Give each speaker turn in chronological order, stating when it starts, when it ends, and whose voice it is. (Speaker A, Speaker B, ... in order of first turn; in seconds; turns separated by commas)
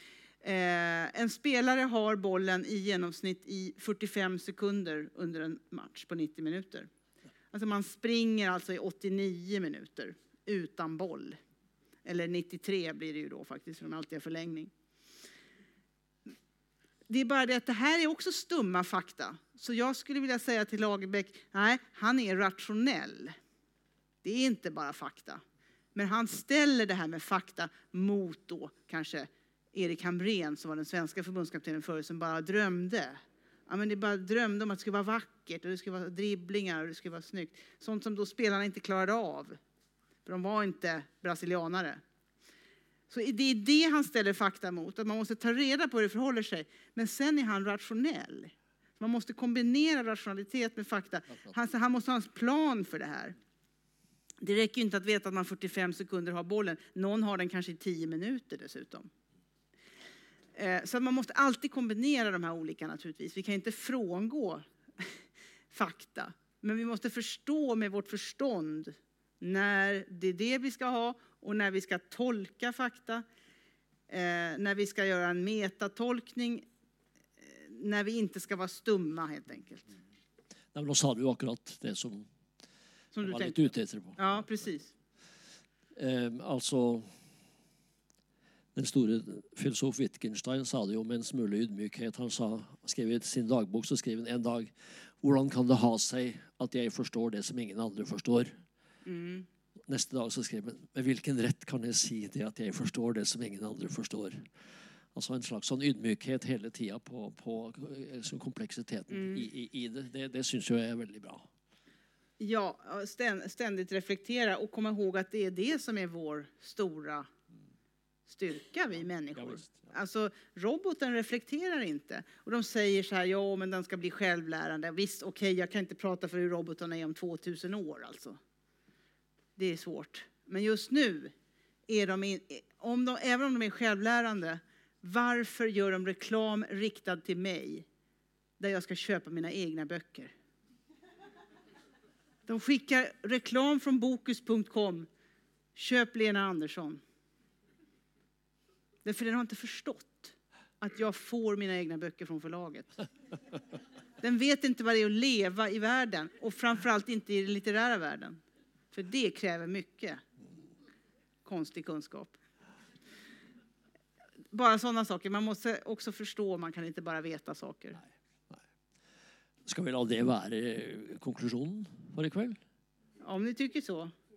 Speaker A: 0.4-6.9, Speaker A: 7.5-11.4, Speaker A: 12.0-14.7, Speaker A: 17.1-23.4, Speaker A: 24.2-25.4, Speaker A: 25.9-39.6, Speaker A: 40.2-42.0, Speaker A: 43.1-53.4, Speaker A: 54.4-59.1, Speaker A: 60.5-73.2, Speaker A: 74.1-76.7, Speaker A: 77.4-79.9, Speaker B: 80.7-82.3, Speaker A: 83.1-84.9, Speaker B: 83.2-84.2, Speaker B: 86.0-87.1, Speaker B: 88.7-98.6, Speaker A: 99.0-99.5, Speaker B: 99.9-104.5, Speaker B: 105.1-111.5, Speaker A: 109.1-109.4, Speaker A: 112.4-117.3, Speaker A: 118.3-128.4, Speaker B: 119.3-119.8, Speaker A: 129.6-131.3, Speaker A: 131.9-137.8, Speaker A: 138.6-140.3, Speaker A: 142.5-145.1, Speaker A: 145.7-147.0, Speaker A: 149.0-152.9, Speaker A: 154.2-158.4, Speaker A: 158.9-160.2, Speaker A: 161.4-162.3, Speaker A: 164.5-168.0, Speaker B: 169.7-172.6, Speaker A: 173.2-174.1